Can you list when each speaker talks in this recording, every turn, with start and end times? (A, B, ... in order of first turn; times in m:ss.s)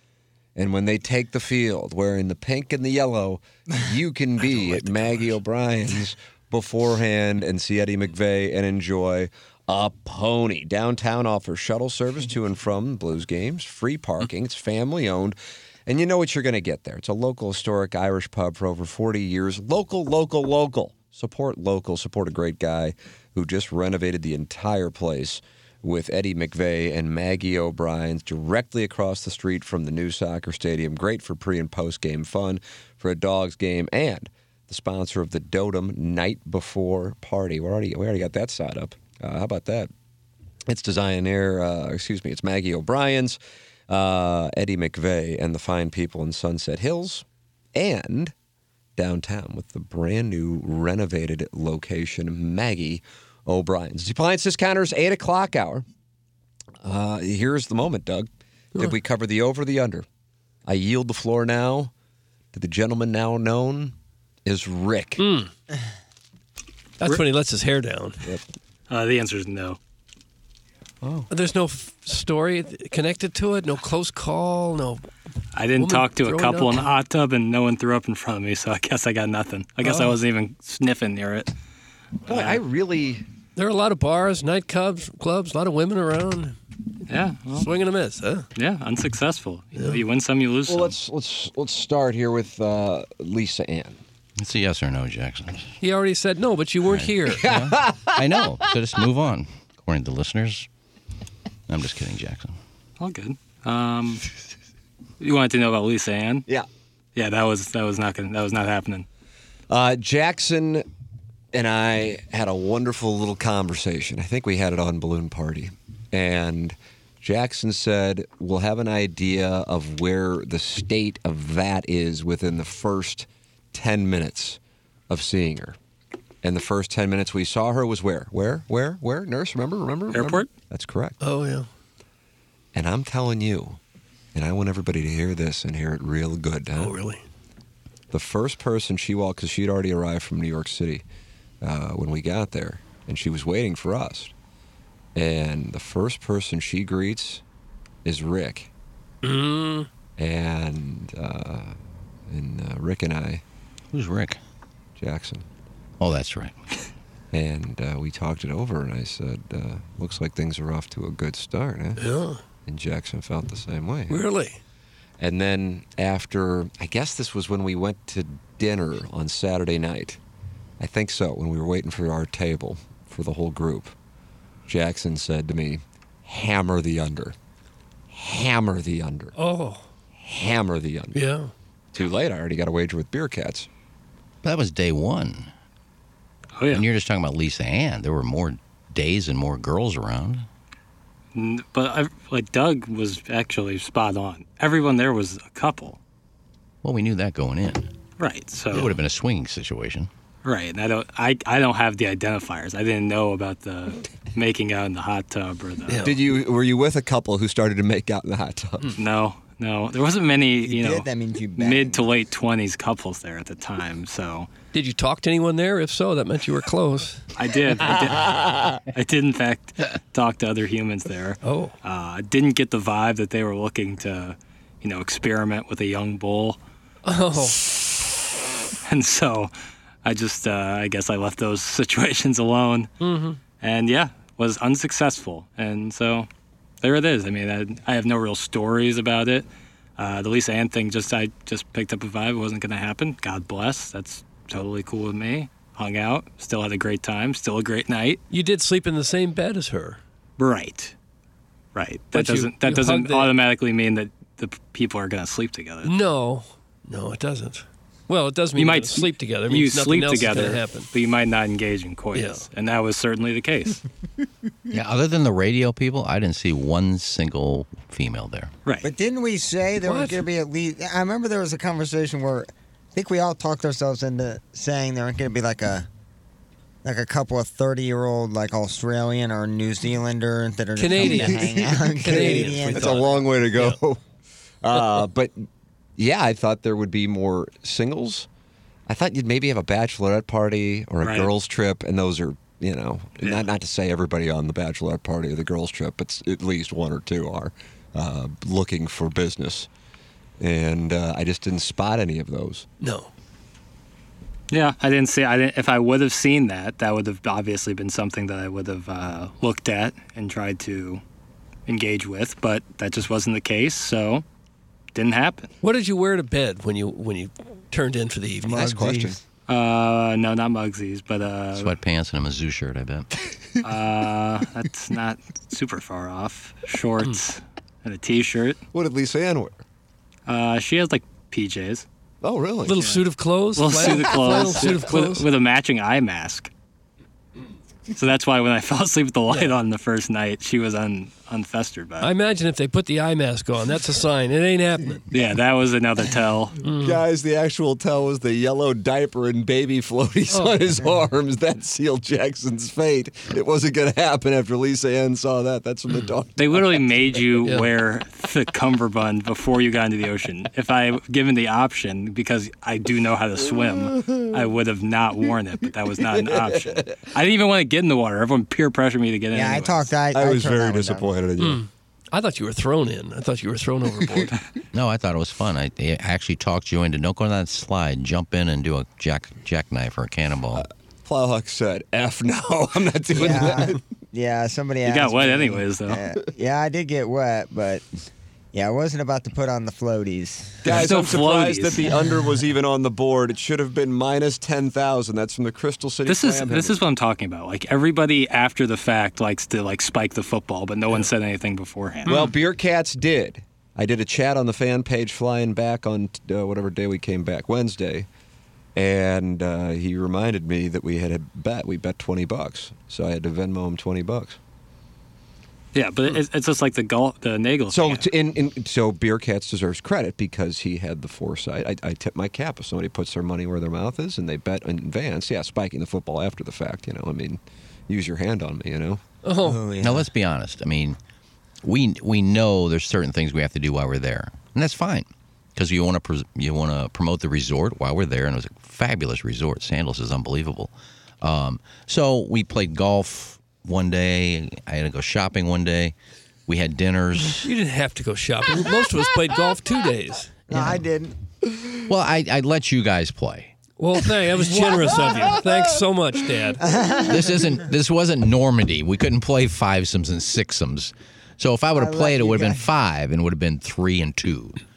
0:00.6-0:39.9 A
0:40.7-0:43.4 A
0:43.9-0:48.3 A
0:49.0-0:55.8 A
0:56.8-1:00.1 A
1:00.6-1:01.9 A
1:02.5-1:05.2 A
1:05.2-1:05.5 B
1:07.0-1:08.2 B
1:08.9-1:09.8 C
1:11.3-1:15.0 B
1:15.6-1:21.5 C
1:15.8-1:16.9 B
1:19.8-1:20.2 B
1:22.3-1:23.2 A
1:23.6-1:26.6 B
1:27.1-1:27.7 C
1:27.6-1:28.5 B
1:28.6-1:31.0 C
1:29.8-1:30.0 B
1:30.7-1:34.0 A
1:34.4-1:35.7 D
1:35.8-1:37.5 B
1:36.9-1:40.7 D
1:37.3-1:38.6 A
1:41.7-1:42.6 D
1:43.0-1:44.2 C
1:45.2-1:46.5 C
1:47.2-1:49.1 C
1:49.7-1:50.8 A
1:51.5-2:05.8 A
2:06.4-2:11.2 A
2:10.1-2:10.5 C
2:11.2-2:11.7 B
2:12.7-2:13.8 A
2:14.4-2:17.0 A
2:16.8-2:17.2 B
2:18.1-2:21.0 A
2:21.6-2:24.3 A
2:25.2-2:27.4 A
2:28.0-2:28.7 A
2:29.2-2:29.9 B
2:30.2-2:31.8 A
2:32.3-2:33.4 A
2:33.9-2:34.4 D
2:35.0-2:35.4 A
2:36.0-2:36.6 D
2:37.3-2:42.1 A
2:42.0-2:42.4 B
2:42.6-2:44.2 A
2:44.1-2:44.6 B
2:45.2-2:50.2 A
2:50.8-2:54.0 A
2:54.7-2:57.4 A
2:58.1-2:59.4 A
2:59.4-2:59.8 B
3:00.2-3:01.3 A
3:01.1-3:01.5 B
3:01.9-3:03.7 A
3:04.4-3:05.5 D
3:06.6-3:06.8 C
3:06.7-3:10.5 D
3:11.4-3:16.0 C
3:16.8-3:17.9 D
3:18.2-3:18.9 C
3:18.7-3:20.1 D
3:20.4-3:26.0 C
3:25.9-3:26.2 B
3:26.0-3:29.0 A
3:29.0-3:31.1 C
3:30.6-3:32.2 E
3:31.6-3:34.5 C
3:34.7-3:37.3 B
3:37.4-3:46.6 C
3:41.4-3:41.7 B
3:47.0-3:48.1 B
3:48.9-3:49.5 C
3:50.0-3:52.9 C
3:53.0-3:53.4 B
3:53.6-3:56.3 C
3:56.8-4:08.2 C
4:08.3-4:10.0 B
4:10.4-4:10.9 C
4:11.8-4:15.9 C
4:12.1-4:13.4 B
4:15.8-4:20.9 B
4:18.6-4:23.8 C
4:22.1-4:22.5 B
4:24.7-4:28.5 D
4:28.8-4:35.9 E
4:29.8-4:30.2 B
4:36.8-4:43.2 E
4:40.8-4:43.8 B
4:41.0-4:44.0 A
4:44.6-4:48.3 A
4:48.9-4:59.7 A
4:51.0-4:51.3 C
5:00.4-5:02.7 A
5:02.8-5:03.1 B
5:04.5-5:11.0 C
5:11.7-5:14.2 C
5:15.0-5:15.5 C
5:15.6-5:18.7 B
5:18.4-5:19.2 E
5:18.5-5:19.2 A
5:19.5-5:21.7 C
5:21.5-5:23.1 D
5:23.6-5:28.6 C
5:28.7-5:29.6 A
5:30.3-5:31.8 C
5:32.2-5:32.9 A
5:32.6-5:35.3 B
5:33.6-5:36.5 C
5:34.1-5:34.7 A
5:38.0-5:42.1 C
5:39.3-5:39.6 B
5:42.0-5:45.1 B
5:45.1-5:46.6 C
5:46.6-5:47.0 B
5:46.8-5:56.9 A
5:50.3-5:50.6 B
5:56.4-6:09.9 C
5:57.4-5:57.7 B
6:06.1-6:07.1 A
6:09.3-6:11.1 E
6:10.1-6:11.6 A
6:11.4-6:14.4 B
6:14.7-6:20.7 D
6:20.6-6:23.8 A
6:23.2-6:27.8 E
6:24.9-6:26.0 C
6:28.5-6:30.8 E
6:30.6-6:36.8 A
6:30.7-6:31.9 C
6:36.1-6:42.1 C
6:42.1-6:42.3 B
6:42.1-6:48.1 A
6:48.8-6:54.4 A
6:55.8-6:58.1 C
6:57.7-7:09.0 A
7:09.2-7:09.7 B
7:09.4-7:10.1 E
7:09.8-7:11.0 D
7:11.6-7:25.9 D
7:26.5-7:27.5 D
7:27.3-7:30.4 B
7:30.5-7:31.2 E
7:30.5-7:30.8 D
7:31.8-7:33.5 D
7:33.8-7:36.6 B
7:36.6-7:37.3 E
7:37.0-7:44.6 D
7:41.7-7:42.7 E